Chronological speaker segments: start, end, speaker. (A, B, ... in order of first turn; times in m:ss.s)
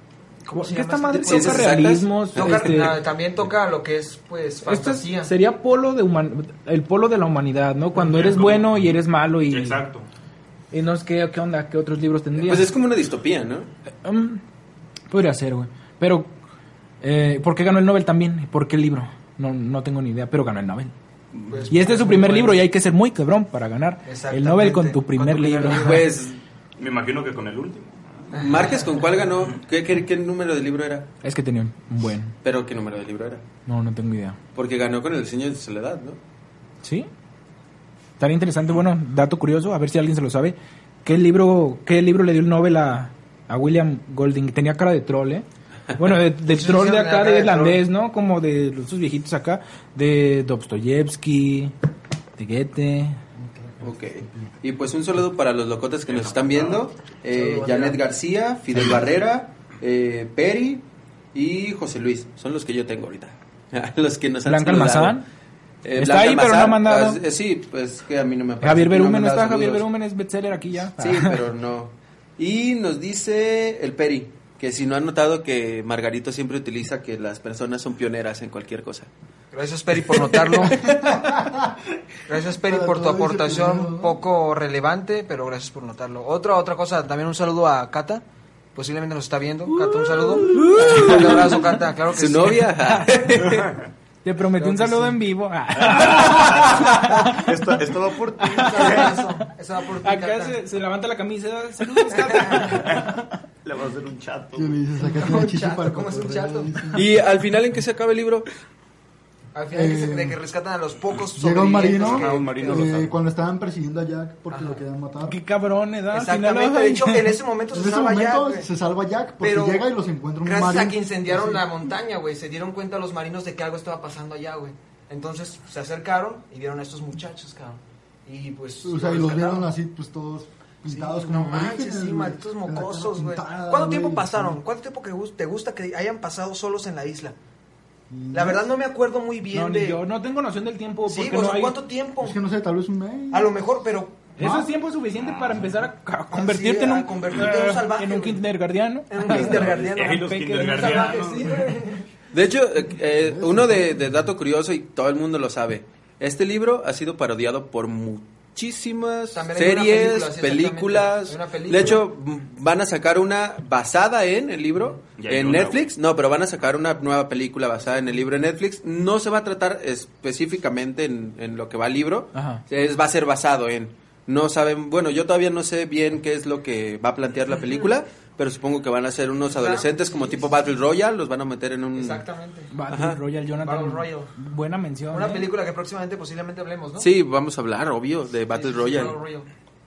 0:00.4-0:05.3 A
0:00.5-0:03.0 B
0:01.1-0:03.0 C
0:04.6-0:09.8 B
0:07.9-0:09.0 D
0:09.5-0:10.0 D
0:10.7-0:12.7 B
0:12.4-0:13.7 C
0:14.0-0:14.4 B
0:15.1-0:16.3 B
0:17.0-0:20.9 B
0:21.5-0:22.6 A
0:21.5-0:26.0 B
0:24.0-0:26.1 A
0:25.7-0:26.4 C
0:26.8-0:28.4 D
0:28.3-0:28.6 A
0:28.3-0:31.1 C
0:31.2-0:32.3 B
0:32.4-0:33.4 C
0:33.6-0:34.4 B
0:34.5-0:36.2 C
0:36.8-0:37.1 B
0:38.2-0:51.7 B
0:46.4-0:47.8 A
0:52.4-0:53.2 B
0:53.3-0:54.5 E
0:53.8-1:05.2 C
0:56.1-0:56.9 D
0:57.3-0:58.0 A
1:04.4-1:05.2 B
1:05.8-1:09.8 C
1:06.0-1:07.2 B
1:08.6-1:11.4 B
1:11.0-1:19.1 C
1:19.5-1:21.2 A
1:20.1-1:21.2 C
1:21.2-1:21.7 E
1:22.3-1:28.2 A
1:22.6-1:24.2 E
1:28.7-1:32.8 A
1:30.0-1:33.7 C
1:30.5-1:30.9 B
1:33.4-1:33.9 D
1:34.2-1:37.5 B
1:34.6-1:35.2 A
1:35.8-1:39.3 D
1:38.4-1:39.2 B
1:38.5-1:40.6 A
1:40.0-1:43.2 B
1:42.0-1:42.9 A
1:42.6-1:44.8 D
1:44.5-1:47.2 E
1:45.0-1:46.8 A
1:46.9-1:48.5 C
1:49.5-1:52.9 A
1:49.7-1:50.4 E
1:51.4-1:55.4 E
1:51.8-1:53.1 D
1:54.5-1:54.8 A
1:55.2-1:57.4 B
1:56.1-1:58.7 A
1:57.7-2:01.8 E
1:59.4-1:59.8 A
2:00.4-2:09.7 A
2:08.8-2:14.6 E
2:10.8-2:17.3 A
2:18.1-2:18.6 E
2:18.3-2:20.0 A
2:19.5-2:21.8 B
2:21.1-2:22.4 A
2:22.2-2:23.5 E
2:23.3-2:24.3 A
2:24.4-2:31.4 B
2:24.4-2:24.7 E
2:25.2-2:25.8 D
2:26.3-2:28.4 A
2:29.1-2:32.0 A
2:29.3-2:31.7 D
2:32.3-3:02.2 C
2:33.2-2:34.2 E
2:39.3-2:42.0 A
2:45.2-2:45.9 D
2:52.3-2:52.6 B
2:59.5-3:00.7 A
3:01.9-3:02.7 A
3:02.7-3:05.5 B
3:02.9-3:03.2 C
3:03.6-3:04.3 A
3:05.1-3:07.1 A
3:07.0-3:09.2 C
3:08.5-3:09.5 A